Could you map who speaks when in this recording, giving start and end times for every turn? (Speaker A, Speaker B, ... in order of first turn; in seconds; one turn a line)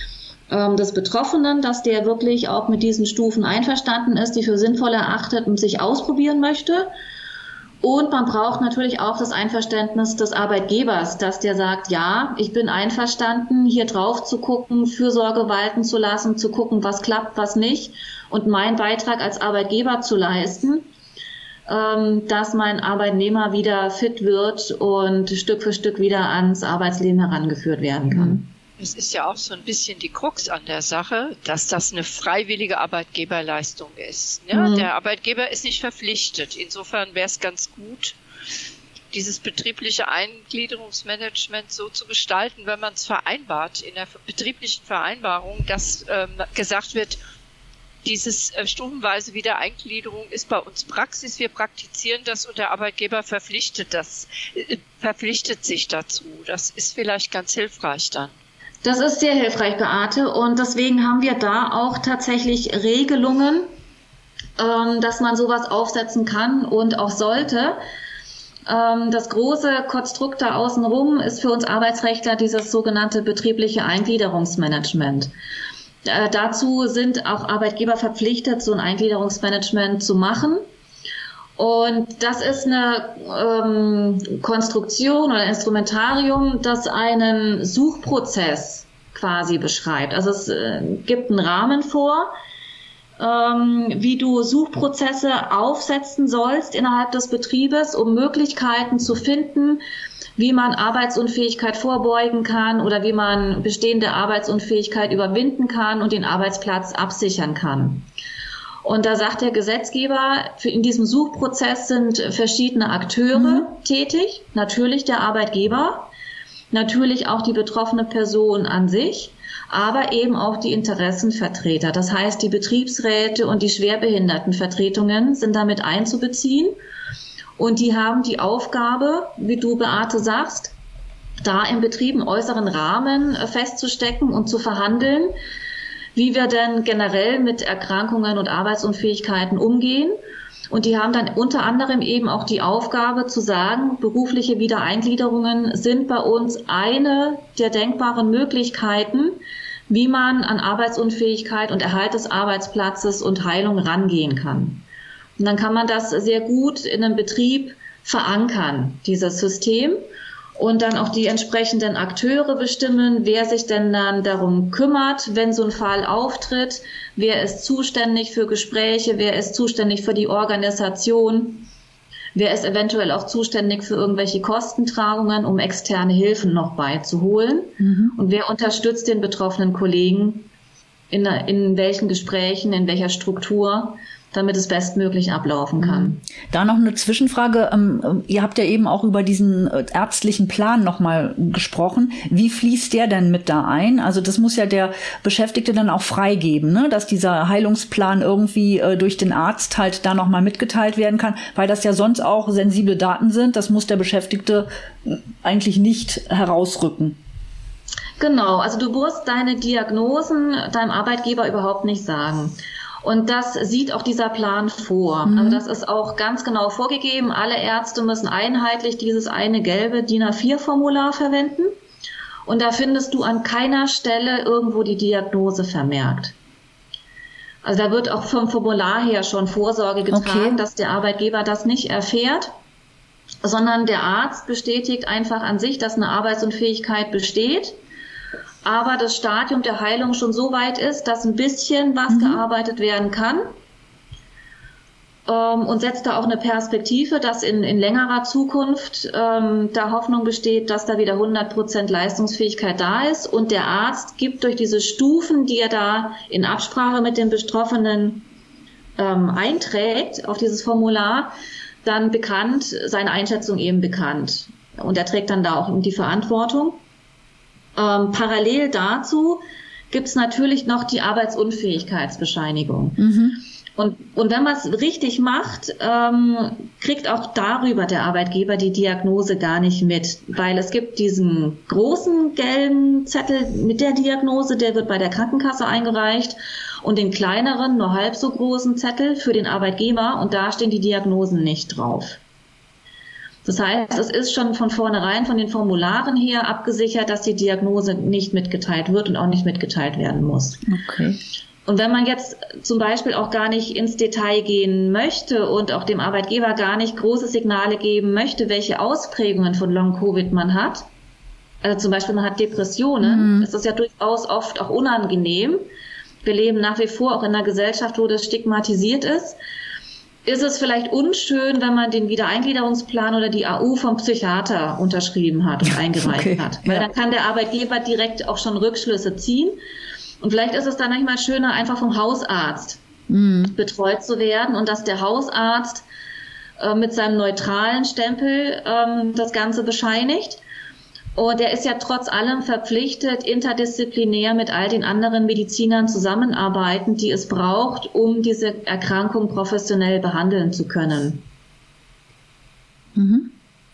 Speaker A: 0.5-6.9
Speaker A: 7.8-20.9
Speaker A: 21.7-28.5
Speaker B: 28.1-28.4
Speaker C: 28.8-38.2
Speaker A: 34.5-34.9
Speaker C: 39.1-47.2
Speaker C: 48.0-58.3
Speaker A: 58.8-63.7
Speaker A: 64.6-67.8
Speaker A: 68.7-75.3
Speaker A: 76.0-80.6
Speaker A: 81.6-92.3
Speaker A: 93.2-99.8
Speaker A: 100.4-108.1
Speaker A: 108.8-116.1
Speaker B: 113.3-113.7
Speaker A: 116.7-126.8
Speaker A: 127.6-130.8
Speaker A: 131.4-135.3
Speaker A: 136.2-140.2
Speaker A: 140.7-154.8
Speaker A: 155.4-160.0
Speaker A: 160.6-171.7
Speaker A: 172.3-180.5
Speaker B: 177.8-178.2
Speaker A: 181.1-186.2
Speaker B: 185.8-207.2
Speaker A: 208.2-221.7
Speaker B: 215.3-215.6
Speaker A: 222.5-226.3
Speaker A: 227.6-232.5
Speaker B: 230.1-230.6
Speaker A: 233.4-237.8
Speaker A: 238.6-243.5
Speaker B: 242.1-242.4
Speaker A: 245.3-258.3
Speaker A: 259.0-266.8
Speaker A: 267.8-273.1
Speaker B: 273.0-273.4
Speaker A: 273.8-292.2
Speaker A: 293.4-300.6
Speaker B: 300.7-301.2
Speaker A: 301.7-310.9
Speaker A: 311.6-315.6
Speaker B: 313.0-313.5
Speaker A: 316.2-319.4
Speaker A: 320.2-329.6
Speaker B: 325.7-326.9
Speaker A: 330.2-332.8
Speaker B: 333.1-333.6
Speaker A: 333.5-335.9
Speaker A: 336.6-340.4
Speaker A: 341.2-351.2
Speaker B: 352.9-353.3